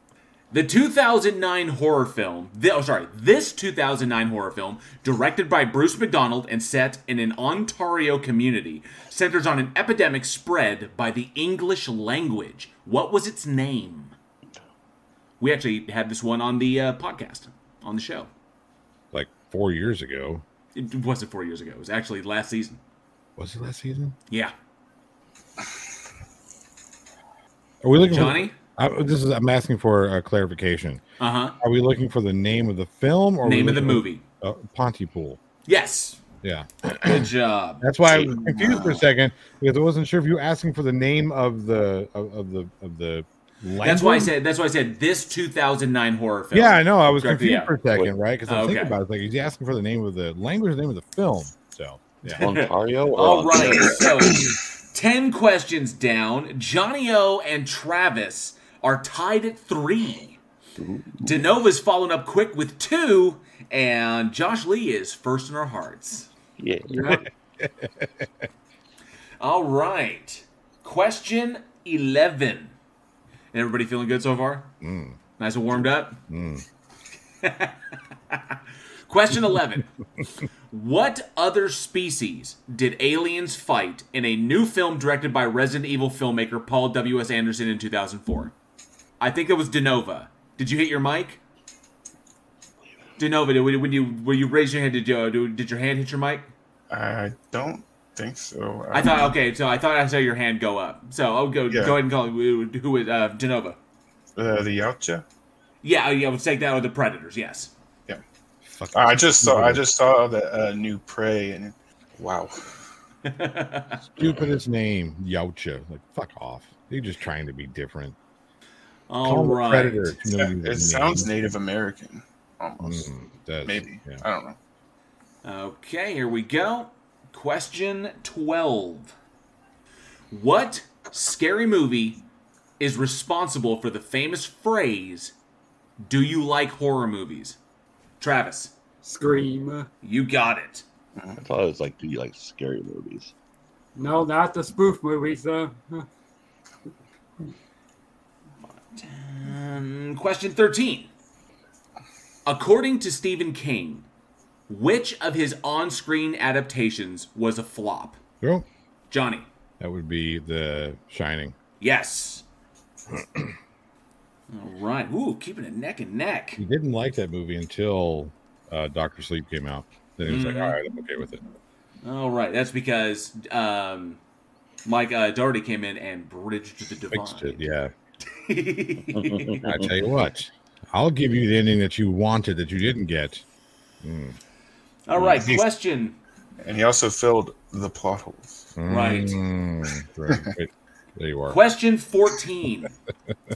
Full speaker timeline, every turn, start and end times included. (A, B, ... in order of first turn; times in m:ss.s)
0:00.5-0:14.1 A
0:15.4-0:18.3 A
0:19.1-0:20.4 B
0:20.7-0:22.8 A
0:23.4-0:24.1 B
0:27.8-0:31.0 B
0:28.1-0:28.5 A
0:31.2-0:31.6 A
0:31.6-0:35.4 B
0:33.4-0:34.2 A
0:35.6-0:36.2 A
0:36.4-0:44.3 B
0:37.0-0:37.8 A
0:38.1-0:39.0 C
0:43.8-0:47.7 A
0:46.5-0:52.4 B
0:48.5-0:48.9 A
0:52.3-1:00.4 A
0:52.4-0:54.0 D
1:00.8-1:01.4 D
1:01.2-1:06.3 A
1:06.6-1:07.2 D
1:06.9-1:07.2 E
1:07.1-1:08.3 B
1:09.4-1:12.7 A
1:13.5-1:14.7 A
1:14.8-1:15.2 B
1:15.4-1:16.2 A
1:16.3-1:16.6 B
1:17.4-1:19.9 A
1:20.7-1:28.5 A
1:29.2-1:31.4 A
1:33.2-1:36.5 A
1:36.9-1:39.3 C
1:38.9-1:43.8 A
1:41.7-1:42.0 C
1:44.4-1:45.2 C
1:45.8-1:47.7 A
1:48.6-1:49.8 B
1:48.9-1:52.6 C
1:53.2-1:54.0 A
1:54.0-1:58.2 B
1:59.1-2:00.2 A
1:59.2-2:01.5 B
2:00.4-2:03.1 C
2:02.8-2:04.2 B
2:03.6-2:04.6 C
2:05.4-2:09.1 A
2:10.3-2:12.2 A
2:12.8-2:15.3 A
2:16.0-2:17.6 A
2:18.2-2:18.7 A
2:19.0-2:19.9 E
2:20.0-2:20.8 A
2:21.4-2:23.3 D
2:24.0-2:26.0 E
2:28.9-2:31.1 A
2:32.4-2:34.0 A
2:34.7-2:38.2 A
2:38.4-2:38.6 B
2:39.1-2:39.4 A
2:39.8-2:41.5 B
2:41.8-2:42.4 A
2:43.1-2:43.5 B
2:44.5-2:46.6 A
2:46.6-2:51.4 B
2:50.2-2:50.8 A
2:52.0-2:54.2 A
2:54.8-2:57.6 A
2:57.1-2:57.9 B
2:58.3-2:59.7 A
2:59.1-2:59.7 D
2:59.6-3:03.4 B
3:04.0-3:04.4 B
3:05.1-3:06.2 A
3:05.2-3:05.6 C
3:06.6-3:08.7 C
3:08.8-3:11.6 B
3:08.9-3:09.4 A
3:11.5-3:12.9 A